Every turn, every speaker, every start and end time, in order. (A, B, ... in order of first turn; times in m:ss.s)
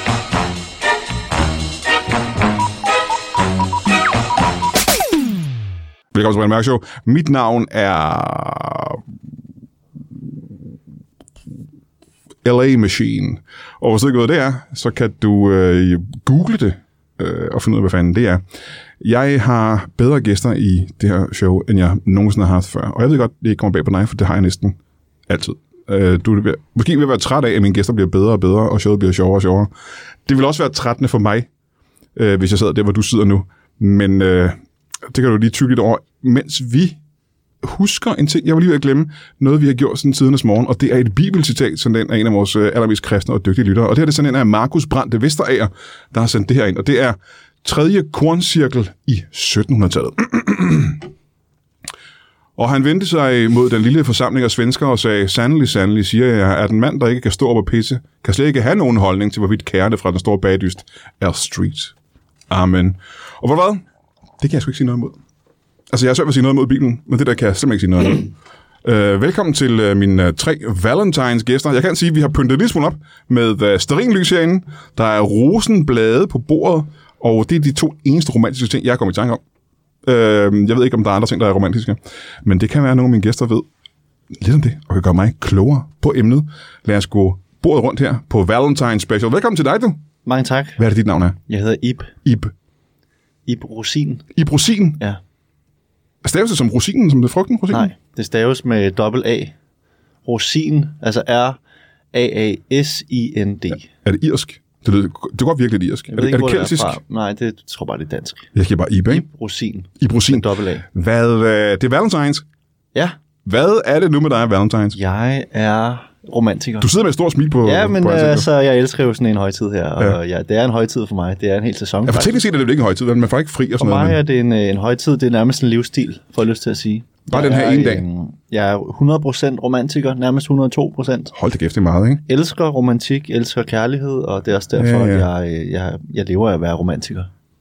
0:06.1-0:09.0 A
0:12.4-0:18.4 A
0:19.0-0:29.7 A
0:30.3-0:31.5 A
0:32.2-0:37.0 A
0:37.6-0:51.1 A
0:52.6-1:01.9 A
1:02.5-1:03.8 A
1:04.4-1:05.2 A
1:05.9-1:08.3 A
1:08.8-1:19.4 A
1:20.0-1:23.7 A
1:24.3-1:30.0 A
1:30.2-1:30.8 B
1:30.8-1:31.4 A
1:31.5-1:32.1 B
1:32.2-1:32.5 A
1:33.5-1:34.2 B
1:34.4-1:35.0 A
1:36.2-1:37.9 A
1:37.7-1:39.5 B
1:40.2-1:41.6 B
1:42.1-1:43.9 B
1:44.0-1:47.0 A
1:46.1-1:48.5 B
1:48.6-1:49.2 A
1:49.1-1:50.8 B
1:50.0-1:52.4 A
1:53.4-1:55.0 A
1:54.9-1:56.9 B
1:56.8-1:58.5 A
1:57.6-2:02.4 B
2:02.1-2:04.2 A
2:03.8-2:11.3 B
2:07.3-2:08.0 A
2:11.3-2:12.2 A
2:12.3-2:17.3 B
2:14.8-2:15.3 A